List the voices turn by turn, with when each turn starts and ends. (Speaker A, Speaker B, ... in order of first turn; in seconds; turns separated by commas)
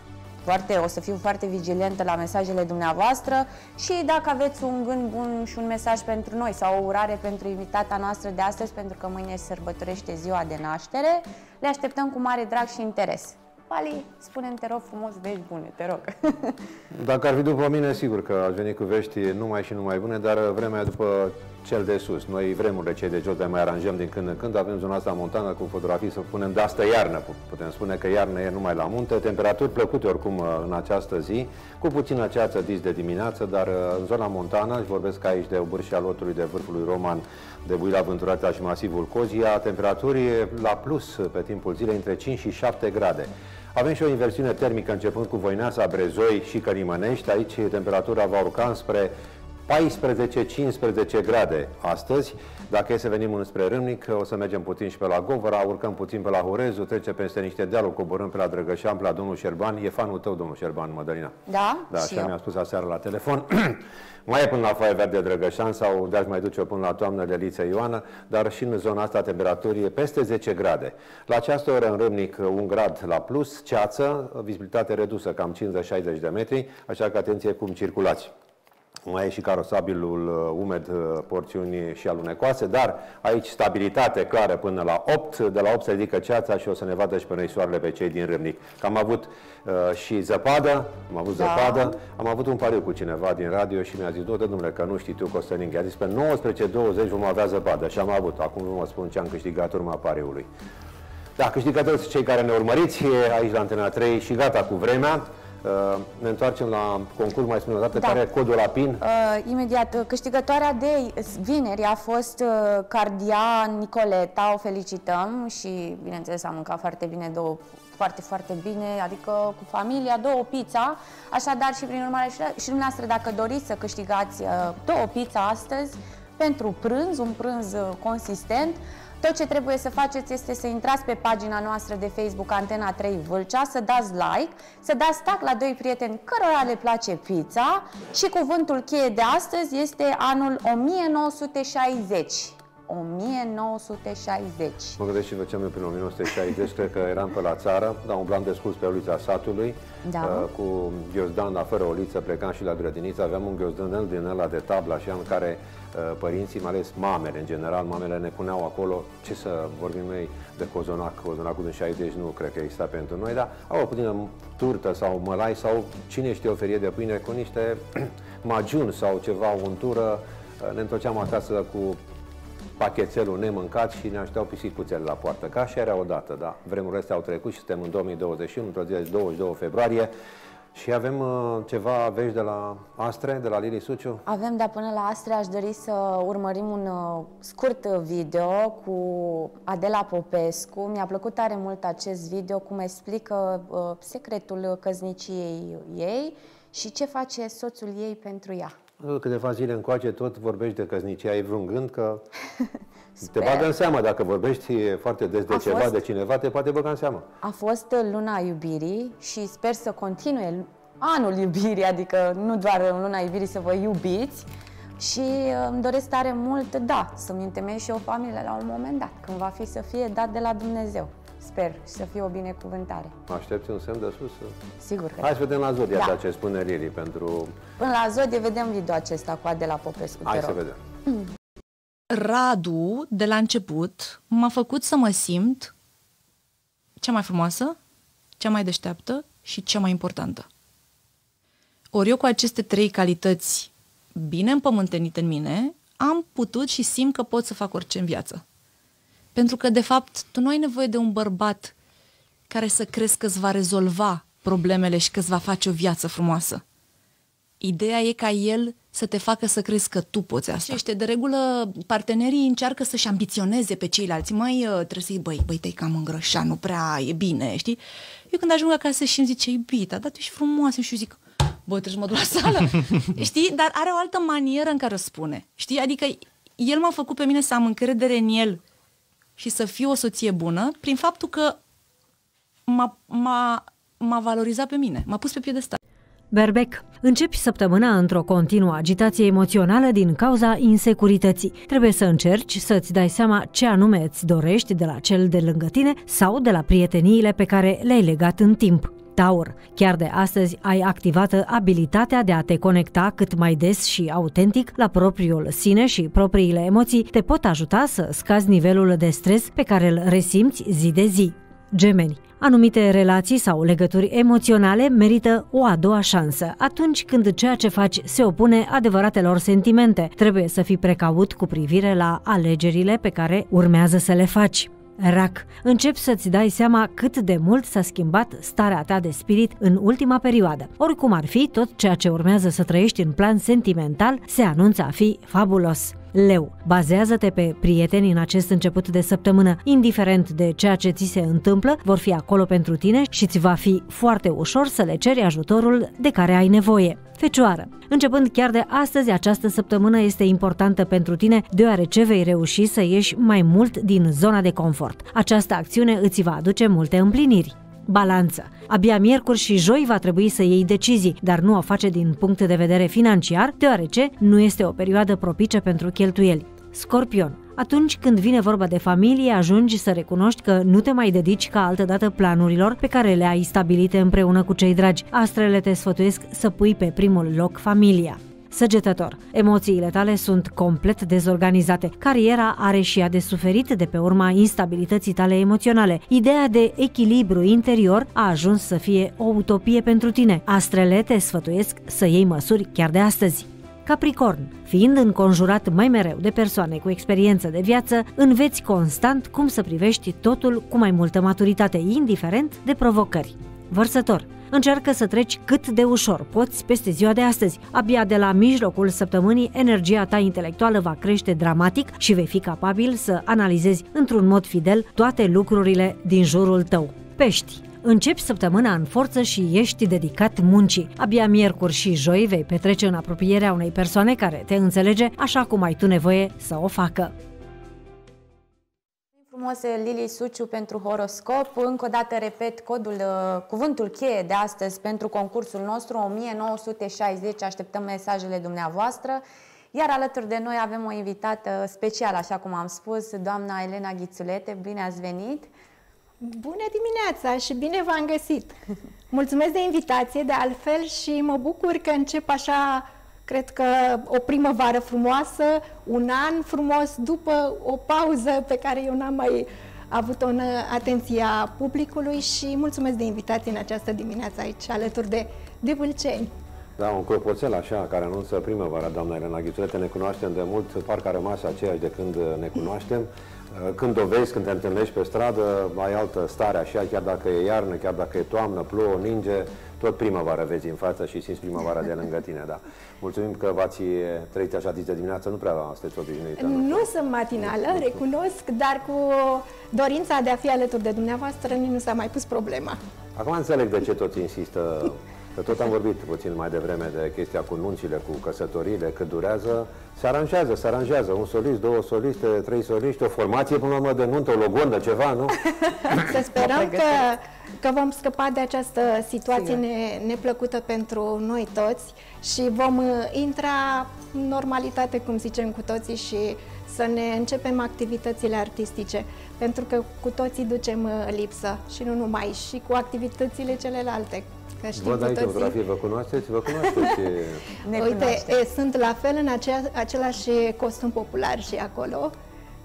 Speaker A: 0.4-16.6, Speaker B: 16.9-49.1, Speaker B: 49.7-61.3, Speaker A: 61.5-62.3, Speaker B: 61.9-78.3, Speaker B: 79.1-100.5, Speaker A: 91.4-92.0, Speaker B: 101.4-109.0, Speaker A: 108.0-108.2, Speaker A: 109.0-145.0, Speaker B: 145.0-172.0, Speaker A: 150.1-150.5, Speaker B: 172.8-180.1, Speaker B: 180.7-184.2, Speaker A: 184.3-198.7, Speaker B: 199.0-202.2, Speaker A: 203.2-203.7, Speaker B: 203.2-207.3, Speaker A: 205.5-206.0, Speaker A: 207.4-214.5, Speaker A: 215.0-223.2, Speaker B: 223.3-224.6, Speaker A: 224.8-225.4, Speaker B: 225.2-227.5, Speaker A: 227.8-231.3, Speaker B: 230.2-230.8, Speaker C: 232.1-235.7, Speaker C: 237.0-237.8, Speaker C: 238.4-240.5, Speaker C: 241.9-248.4, Speaker C: 249.3-251.7, Speaker C: 252.5-256.6, Speaker C: 257.6-278.6, Speaker C: 279.4-281.6, Speaker C: 282.7-285.8, Speaker D: 286.3-427.1, Speaker A: 429.3-439.2, Speaker A: 439.7-445.5, Speaker E: 446.2-448.6, Speaker E: 449.1-466.3, Speaker B: 466.8-488.0, Speaker E: 486.4-492.8, Speaker B: 493.2-505.4, Speaker E: 506.0-525.6, Speaker B: 524.7-527.5, Speaker A: 527.6-528.4, Speaker E: 527.7-532.1